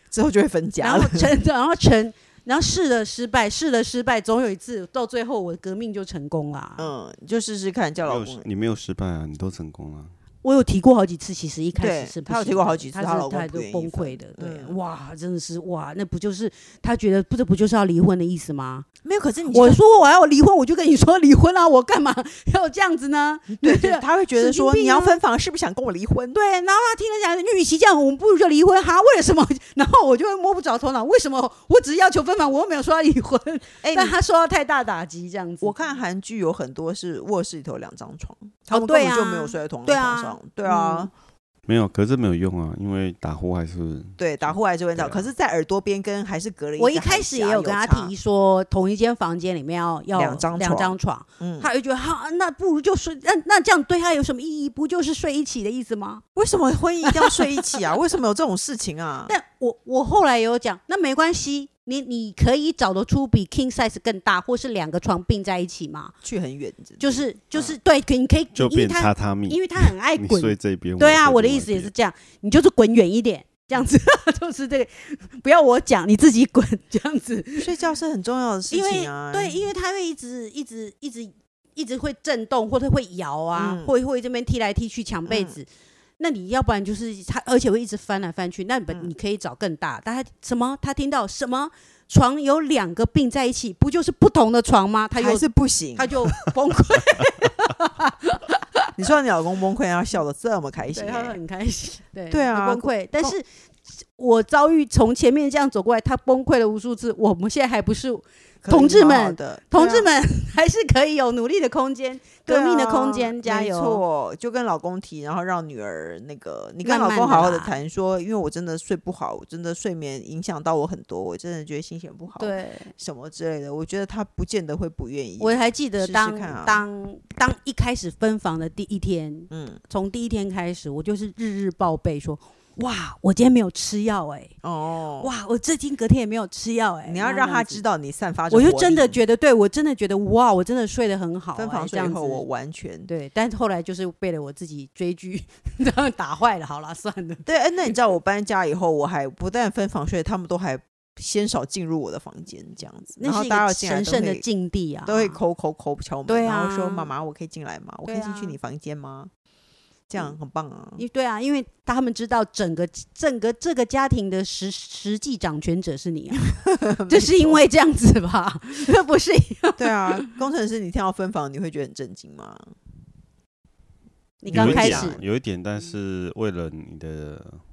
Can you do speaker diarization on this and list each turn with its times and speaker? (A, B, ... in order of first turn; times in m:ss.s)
0:00.1-0:01.3 A
0:00.8-0:06.9 B
0:06.8-0:08.4 A
0:08.0-0:09.8 C
0:08.4-0:10.1 D
0:10.4-0:18.8 B
0:11.7-0:14.8 A
0:19.0-0:19.8 A
0:19.5-0:25.2 B
0:23.6-0:26.4 A
0:26.3-0:35.7 B
0:33.8-0:34.2 A
0:35.6-0:41.1 A
0:38.7-0:41.1 B
0:41.7-0:44.1 C
0:41.7-0:44.5 D
0:44.2-0:48.1 A
0:46.8-0:56.2 B
0:50.1-0:51.7 A
0:56.3-0:59.3 A
0:57.1-0:57.3 B
0:59.2-1:06.1 B
1:06.2-1:07.8 A
1:07.0-1:17.7 B
1:08.6-1:11.9 D
1:08.7-1:09.4 C
1:10.2-1:11.9 C
1:17.6-1:19.7 A
1:18.7-1:25.7 B
1:23.5-1:23.9 A
1:25.3-1:25.6 A
1:26.2-1:38.9 B
1:35.1-1:36.1 A
1:39.0-1:41.4 A
1:40.9-1:54.0 B
1:42.3-1:43.4 A
1:48.6-1:50.1 A
1:52.4-2:06.8 A
1:56.8-1:57.8 B
2:02.4-2:02.9 B
2:05.4-2:14.5 B
2:09.5-2:09.8 A
2:14.6-2:15.3 A
2:15.2-2:17.8 B
2:17.0-2:19.2 A
2:18.5-2:22.4 B
2:21.5-2:23.1 A
2:23.0-2:27.4 B
2:27.4-2:34.4 A
2:33.2-2:35.4 B
2:35.0-2:39.3 A
2:36.3-2:37.1 B
2:38.0-2:38.6 B
2:40.1-2:41.0 A
2:41.0-2:50.3 B
2:46.6-2:47.6 A
2:49.8-2:52.7 A
2:54.4-2:55.2 B
2:54.5-2:55.2 A
2:54.5-2:57.4 C
2:56.2-2:57.6 D